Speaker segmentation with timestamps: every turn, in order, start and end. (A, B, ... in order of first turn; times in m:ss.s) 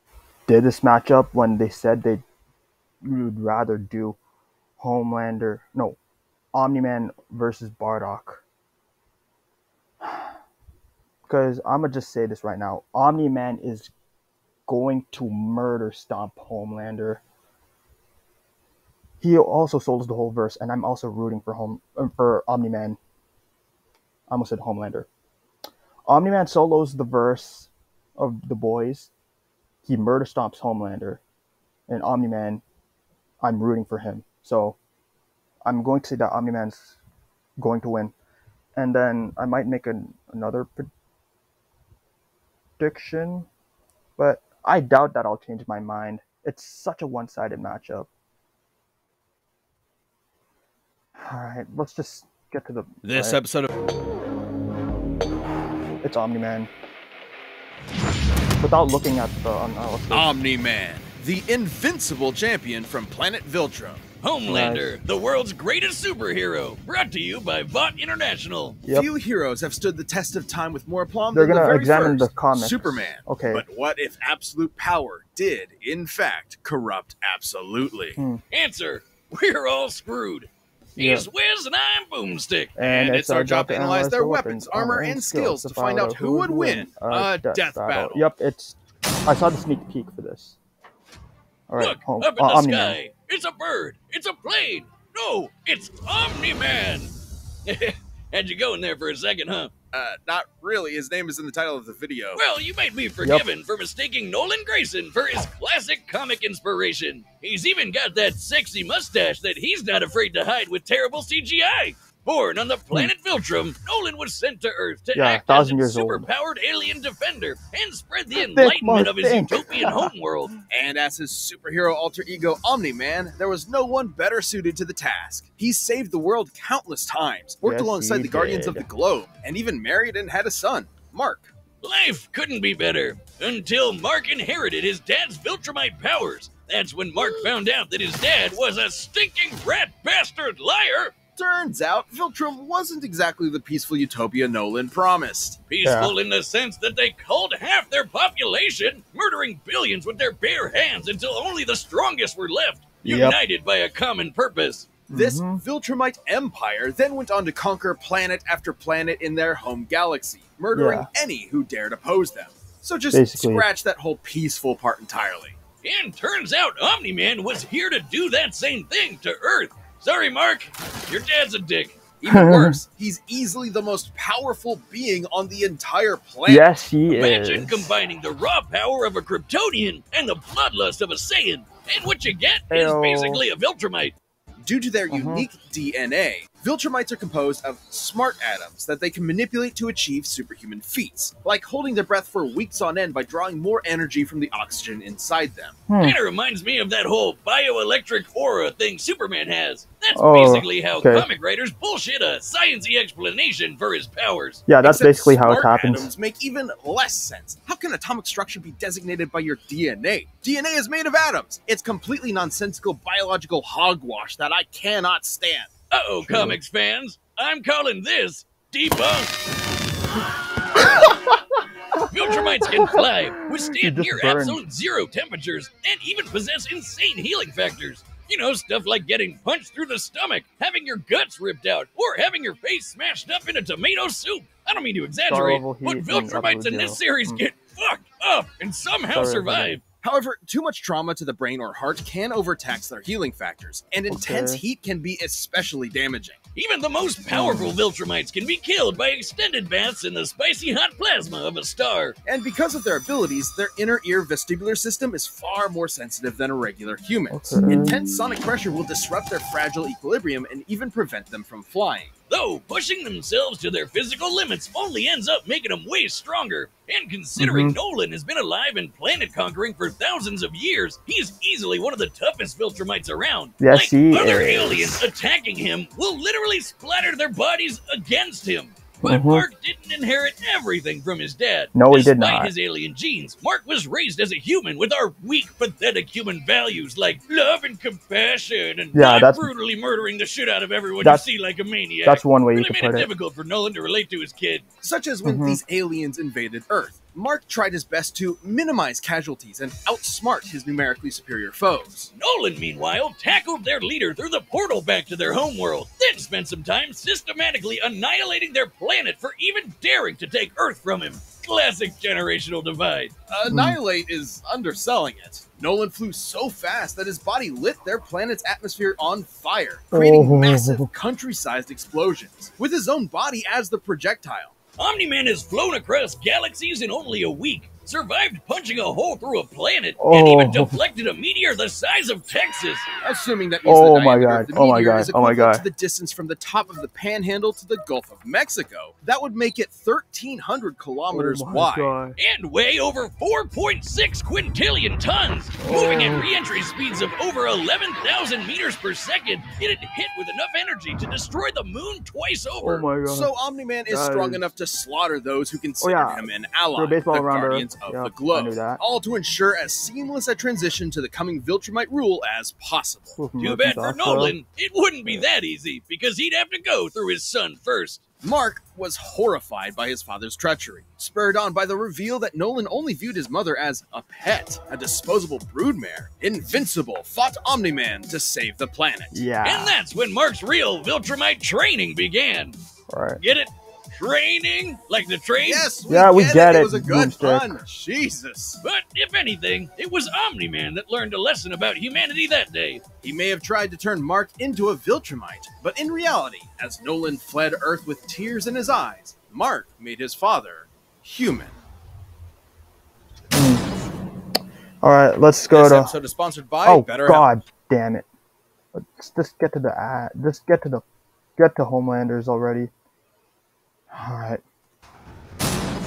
0:00.5-0:02.2 A
0:03.0-0:04.2 A
0:04.8-0:06.0 A
0:06.5-0:08.4 A
0:10.0-0:10.3 A
0:11.3-0:13.9 A
0:14.7-0:17.2 A
0:19.2-0:23.0 A
0:24.3-0:25.1 A
0:26.1-0:29.1 A
0:29.8-0:31.2 A
0:31.9-0:32.6 A
0:33.4-0:34.8 A
0:35.6-0:37.0 A
0:37.6-0:38.1 A
0:38.8-0:40.9 A
0:42.8-0:43.5 A
0:44.2-0:48.1 A
0:51.2-0:53.4 A
0:53.0-0:53.7 B
0:56.0-0:56.7 A
0:58.6-1:00.3 A
1:00.1-1:04.1 B
1:04.2-1:08.8 C
1:04.4-1:04.9 A
1:08.9-1:18.2 B
1:11.3-1:13.6 A
1:18.2-1:18.4 A
1:18.5-1:22.8 C
1:21.0-1:21.3 A
1:22.8-1:30.6 A
1:22.8-1:28.3 B
1:31.7-1:33.0 A
1:31.8-1:37.1 C
1:37.6-1:39.7 C
1:39.9-1:42.4 B
1:42.4-2:00.6 C
1:55.1-1:56.3 A
1:58.4-2:00.1 A
2:00.7-2:11.5 B
2:07.6-2:08.8 A
2:11.8-2:21.1 C
2:21.4-2:25.6 B
2:25.7-2:34.9 C
2:25.8-2:26.1 A
2:33.0-2:33.4 A
2:35.1-2:35.6 A
2:35.1-2:45.6 B
2:40.7-2:41.1 A
2:43.1-2:43.6 A
2:45.8-2:52.0 C
2:52.2-2:56.7 B
2:52.2-2:52.8 A
2:56.5-2:57.9 A
2:57.1-3:04.1 C
3:02.7-3:03.4 A
3:04.6-3:15.8 B
3:05.1-3:05.4 A
3:15.9-3:16.2 A
3:16.0-3:24.6 C
3:20.1-3:21.3 A
3:24.7-3:26.1 A
3:24.8-3:35.7 B
3:35.9-3:39.3 C
3:36.2-3:36.6 A
3:40.8-3:41.0 C
3:41.0-3:41.3 A
3:42.0-3:59.8 C
3:43.8-3:44.6 A
3:55.2-3:57.4 A
3:59.1-3:59.8 A
4:00.0-4:06.4 B
4:04.1-4:04.6 A
4:06.5-4:12.2 C
4:07.3-4:07.8 A
4:12.2-4:22.1 B
4:17.3-4:17.9 A
4:22.3-4:54.6 C
4:27.4-4:27.8 A
4:33.6-4:35.0 A
4:39.0-4:39.5 A
4:41.7-4:42.5 A
4:48.9-4:49.5 A
4:52.0-4:53.1 A
4:54.8-5:02.1 B
4:55.2-4:55.6 A
5:02.1-5:13.1 C
5:13.3-5:24.5 B
5:13.5-5:13.8 A
5:19.9-5:20.9 A
5:24.8-5:32.9 C
5:30.0-5:30.8 A
5:33.0-5:42.0 B
5:33.6-5:35.6 A
5:41.1-5:42.2 A
5:42.2-5:52.9 C
5:45.6-5:46.3 A
5:52.6-5:53.3 A
5:53.0-6:03.2 B
5:53.9-5:54.4 A
5:55.8-5:58.8 A
6:03.2-6:04.4 A
6:03.4-6:08.0 C
6:08.2-6:19.2 B
6:19.1-6:19.8 A
6:19.4-6:22.6 C
6:22.9-6:23.2 A
6:23.2-6:25.7 C
6:25.4-6:28.6 B
6:25.9-6:27.6 A
6:28.6-6:32.8 C
6:33.0-6:41.6 B
6:43.3-6:43.6 A
6:44.8-6:45.9 A
6:45.5-6:47.3 B
6:46.6-6:48.1 A
6:48.7-6:50.8 A
6:51.4-6:52.7 A
6:53.9-6:54.4 A